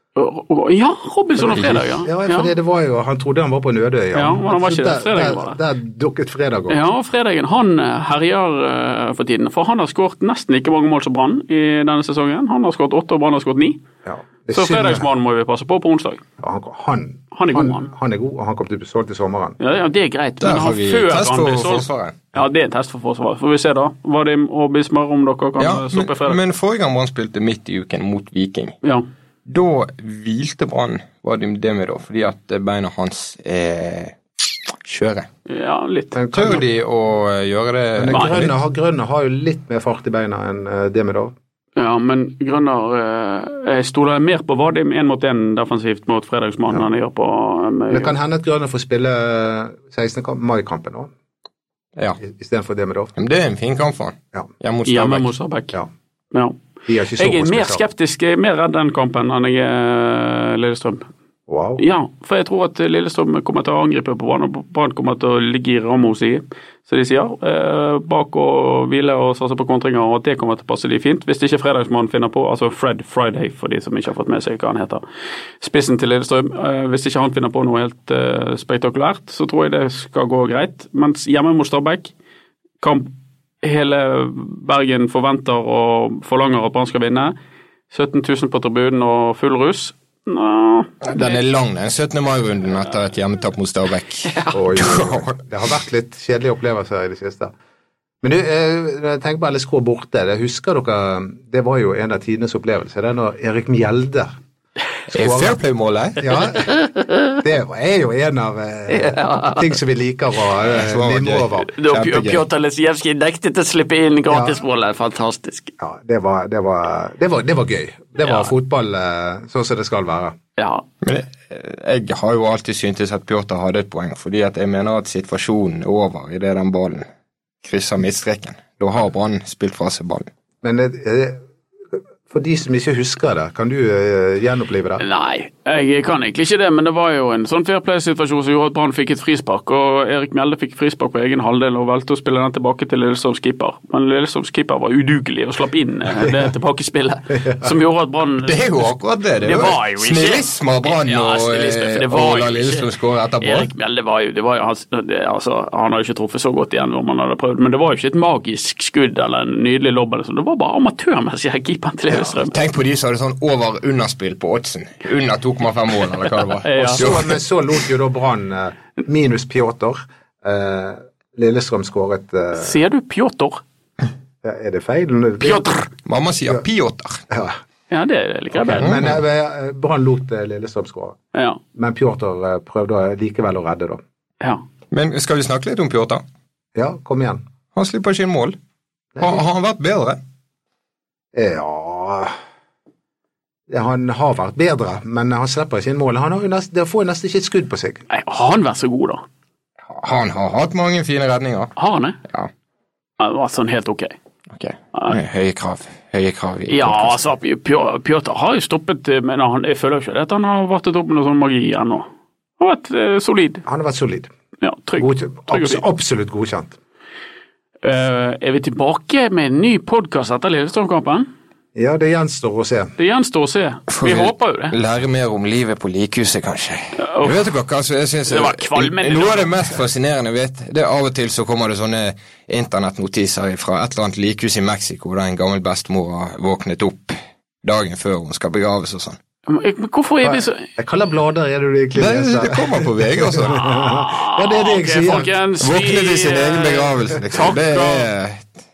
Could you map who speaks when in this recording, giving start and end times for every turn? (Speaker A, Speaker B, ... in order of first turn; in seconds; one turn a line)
Speaker A: 0.1-2.5
Speaker B: 1.4-6.8
Speaker A: 4.1-5.6
Speaker A: 6.7-13.8
Speaker B: 14.0-15.1
Speaker A: 14.5-16.2
Speaker B: 16.4-19.6
Speaker A: 17.3-17.9
Speaker A: 19.6-26.4
Speaker C: 20.4-22.2
Speaker C: 25.6-28.8
Speaker C: 29.4-34.2
Speaker C: 34.7-35.3
Speaker A: 35.5-36.5
Speaker B: 36.1-36.6
Speaker C: 36.3-38.5
Speaker B: 38.0-41.3
Speaker A: 38.1-38.4
Speaker A: 41.8-48.1
Speaker B: 47.9-51.1
Speaker B: 52.2-53.1
Speaker C: 53.1-55.3
Speaker A: 54.9-55.8
Speaker A: 56.3-56.6
Speaker B: 56.9-57.8
Speaker A: 57.2-61.1
Speaker B: 61.5-61.8
Speaker A: 61.8-75.0
Speaker A: 75.6-82.1
Speaker A: 82.8-87.3
Speaker A: 87.9-91.4
Speaker C: 91.0-95.4
Speaker A: 94.2-94.6
Speaker B: 94.5-97.5
Speaker B: 98.2-104.3
Speaker B: 105.1-105.6
Speaker C: 105.1-106.2
Speaker B: 106.2-106.8
Speaker A: 106.8-107.3
Speaker B: 107.4-111.7
Speaker A: 108.9-109.8
Speaker C: 110.6-112.4
Speaker A: 111.7-115.7
Speaker B: 114.3-114.6
Speaker B: 115.8-120.3
Speaker A: 118.2-118.5
Speaker A: 120.6-120.8
Speaker C: 121.0-127.1
Speaker C: 127.6-130.3
Speaker B: 130.6-131.4
Speaker B: 132.3-135.0
Speaker A: 135.0-148.8
Speaker B: 147.4-147.7
Speaker C: 148.4-153.7
Speaker A: 149.4-152.9
Speaker A: 153.4-162.5
Speaker C: 162.1-167.3
Speaker A: 166.6-167.1
Speaker B: 166.8-172.8
Speaker A: 172.5-173.6
Speaker B: 174.4-175.8
Speaker A: 175.4-175.8
Speaker C: 176.0-177.2
Speaker B: 177.3-177.6
Speaker A: 177.9-178.9
Speaker B: 178.6-181.2
Speaker C: 178.8-179.2
Speaker A: 181.3-181.6
Speaker B: 181.7-184.0
Speaker C: 184.9-186.2
Speaker B: 186.7-187.4
Speaker C: 187.7-188.6
Speaker B: 189.1-189.4
Speaker C: 189.2-190.2
Speaker B: 191.3-192.3
Speaker B: 193.7-198.0
Speaker A: 198.1-199.2
Speaker C: 199.8-201.7
Speaker A: 201.8-202.2
Speaker A: 203.2-204.1
Speaker C: 204.5-207.2
Speaker A: 206.7-212.1
Speaker A: 212.6-213.6
Speaker B: 213.7-214.3
Speaker A: 214.6-215.8
Speaker B: 215.0-216.8
Speaker A: 217.8-221.3
Speaker B: 221.8-222.9
Speaker A: 223.0-224.7
Speaker C: 223.9-239.2
Speaker A: 227.0-227.5
Speaker A: 228.2-229.6
Speaker A: 239.5-240.7
Speaker B: 240.2-245.3
Speaker C: 241.9-243.9
Speaker A: 243.9-248.1
Speaker C: 245.6-248.5